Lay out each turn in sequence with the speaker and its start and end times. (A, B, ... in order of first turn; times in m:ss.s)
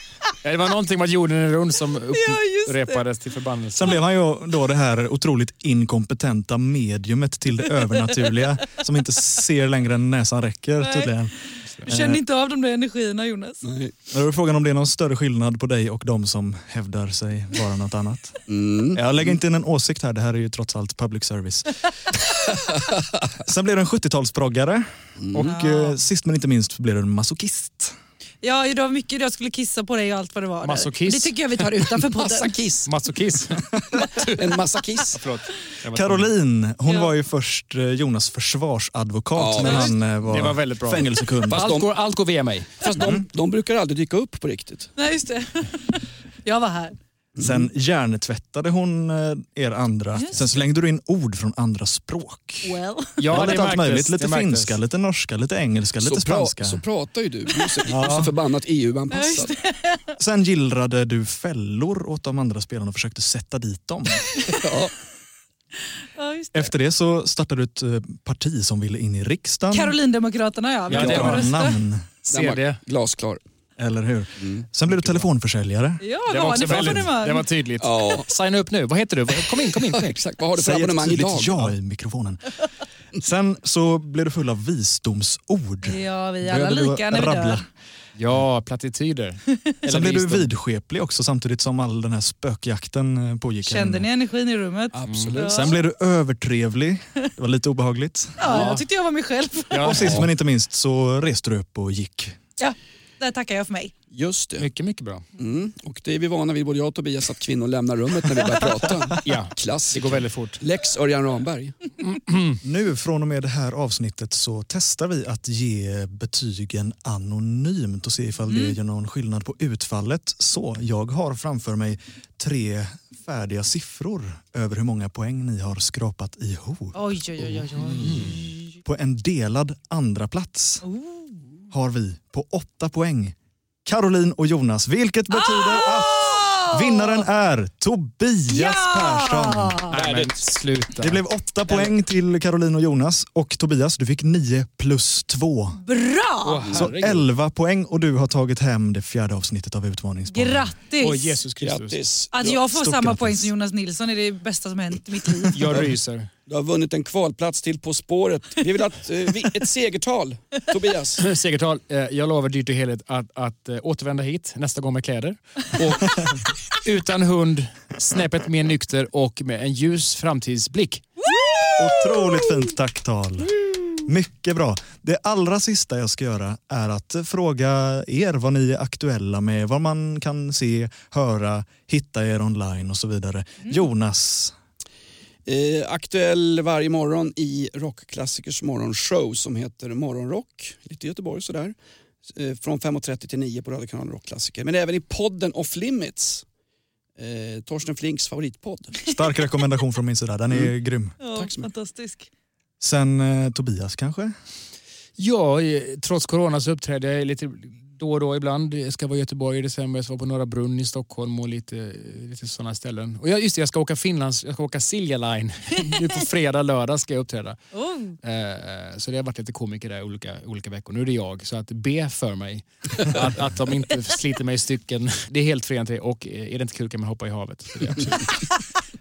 0:00.4-0:04.0 A
0:02.1-0:03.0 B
0:03.8-0:12.2 C
0:10.8-0:11.1 B
0:11.9-0:13.6 B
0:13.6-0:14.0 D
0:14.1-0:18.4 C
0:18.5-0:19.4 D
0:18.9-0:21.8 C
0:23.4-0:28.0 C
0:25.2-0:25.5 D
0:25.4-0:26.0 B
0:28.4-0:32.6 B
0:30.6-0:31.4 A
0:32.2-0:32.9 D
0:32.9-0:36.3 A
0:34.2-0:35.2 D
0:35.9-0:41.7 C
0:36.9-0:37.1 B
0:39.4-0:40.0 D
0:40.2-0:42.9 A
0:41.5-0:41.9 D
0:42.8-0:44.9 D
0:43.0-0:43.2 C
0:45.0-0:47.0 B
0:47.4-0:47.7 D
0:47.4-0:52.8 C
0:50.2-0:50.5 B
0:52.6-0:53.2 B
0:53.2-0:54.8 A
0:53.3-0:56.8 C
0:56.0-0:59.6 D
0:57.9-0:58.3 C
0:59.1-1:00.2 B
1:00.2-1:04.3 C
1:04.5-1:04.9 D
1:06.2-1:06.7 B
1:06.5-1:10.0 C
1:09.7-1:11.8 B
1:10.9-1:11.6 A
1:10.9-1:12.1 C
1:12.2-1:12.8 A
1:12.3-1:13.4 D
1:13.8-1:17.1 C
1:14.4-1:14.7 D
1:16.0-1:17.4 B
1:16.3-1:20.2 A
1:17.8-1:18.3 D
1:19.7-1:21.7 D
1:20.6-1:22.6 C
1:23.2-1:27.7 C
1:25.8-1:27.7 B
1:28.2-1:30.5 A
1:29.5-1:29.7 B
1:29.9-1:34.1 C
1:33.6-1:35.8 B
1:34.9-1:35.8 D
1:35.1-1:35.3 A
1:35.5-1:38.7 C
1:38.4-1:40.0 B
1:38.4-1:38.8 A
1:39.7-1:40.3 A
1:39.8-1:42.4 C
1:42.6-1:43.9 B
1:44.1-1:44.7 D
1:44.6-1:45.2 A
1:45.4-1:51.8 D
1:49.2-1:50.6 A
1:52.0-1:52.6 A
1:52.6-2:10.8 C
1:58.5-1:58.8 B
2:06.9-2:08.8 B
2:07.9-2:08.4 A
2:10.8-2:11.3 B
2:11.7-2:19.9 C
2:15.3-2:17.3 B
2:18.5-2:19.9 B
2:19.9-2:21.9 A
2:20.0-2:20.4 D
2:21.0-2:25.8 C
2:25.8-2:26.6 B
2:26.4-2:27.3 A
2:26.7-2:30.7 C
2:30.3-2:31.4 B
2:31.0-2:32.0 A
2:31.6-2:32.6 D
2:32.3-2:35.6 B
2:32.7-2:33.5 C
2:35.5-2:36.3 A
2:36.5-2:41.2 D
2:41.2-2:51.1 A
2:51.3-2:52.4 B
2:51.8-3:04.5 C
3:05.5-3:11.8 D
3:12.3-3:16.4 D
3:17.2-3:19.0 D
3:19.1-3:21.2 C
3:21.2-3:22.3 B
3:21.4-3:21.7 D
3:22.8-3:24.3 C
3:25.2-3:37.6 A
3:37.7-3:38.2 B
3:38.2-3:48.5 A